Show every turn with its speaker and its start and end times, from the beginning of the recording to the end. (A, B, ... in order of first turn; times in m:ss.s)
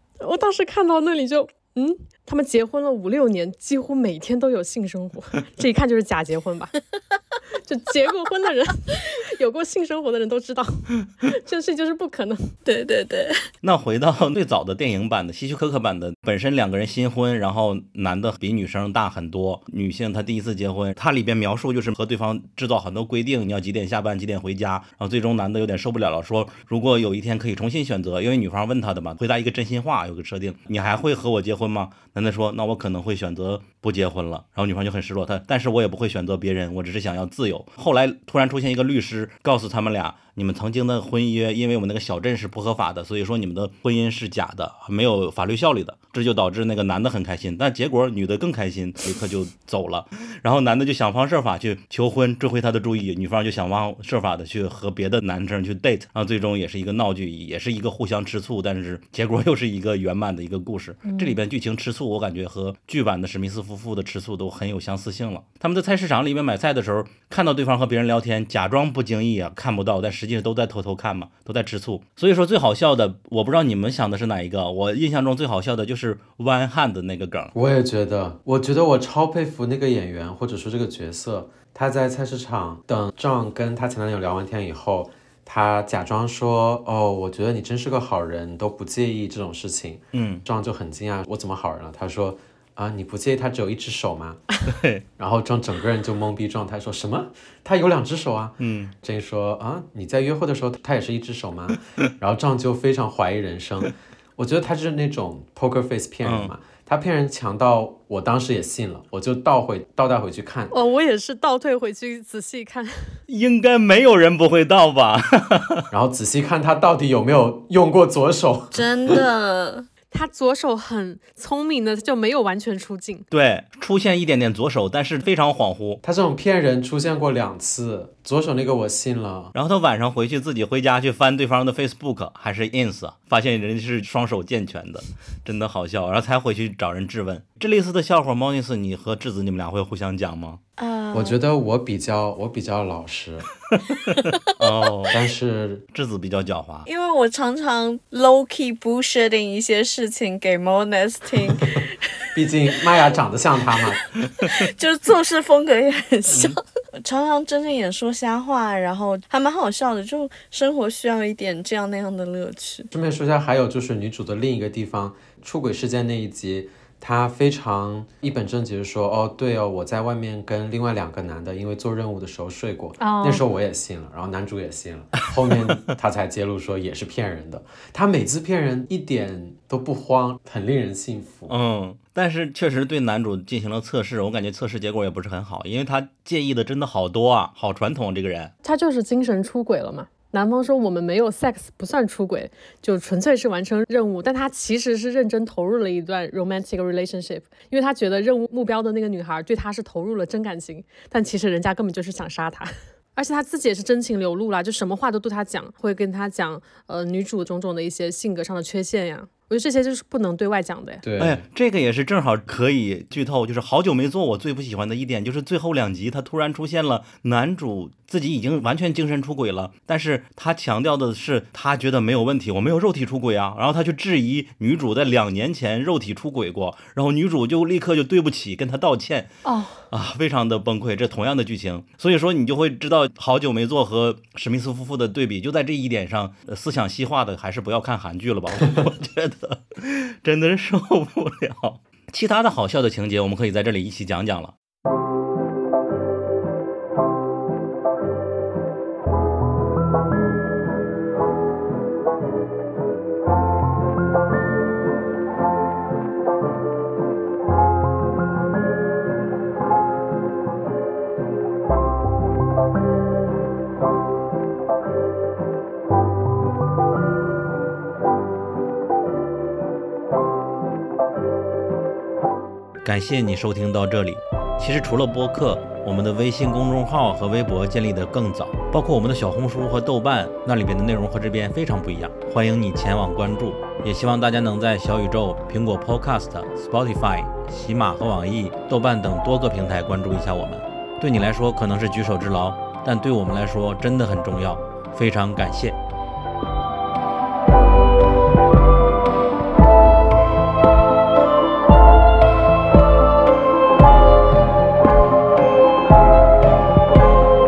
0:00.2-0:06.7 A
0:07.6-0:12.5 A
0:12.6-0:13.4 B
0:13.6-1:17.5 C
1:01.0-1:01.4 A
1:17.5-1:34.4 D
1:30.1-1:30.4 C
1:34.7-1:35.0 C
1:35.2-1:50.7 D
1:38.6-1:38.9 C
1:46.2-1:46.5 C
1:50.7-1:53.2 A
1:53.3-1:55.9 C
1:55.9-1:59.2 D
1:58.7-1:59.9 B
2:00.1-2:03.3 A
2:03.3-2:06.0 C
2:06.0-2:09.5 D
2:09.5-2:20.6 C
2:20.8-2:21.4 B
2:21.1-2:23.5 D
2:24.6-2:25.2 C
2:25.1-2:25.8 D
2:25.9-2:26.9 C
2:26.9-2:32.3 B
2:32.4-2:34.0 D
2:34.5-2:42.9 B
2:42.9-3:01.5 D
2:53.0-2:53.4 A
3:01.5-3:08.5 C
3:08.6-3:31.0 A
3:31.0-3:31.4 D
3:31.2-3:49.3 C
3:49.4-3:49.8 A
3:49.9-4:04.5 C
4:32.8-4:55.8 C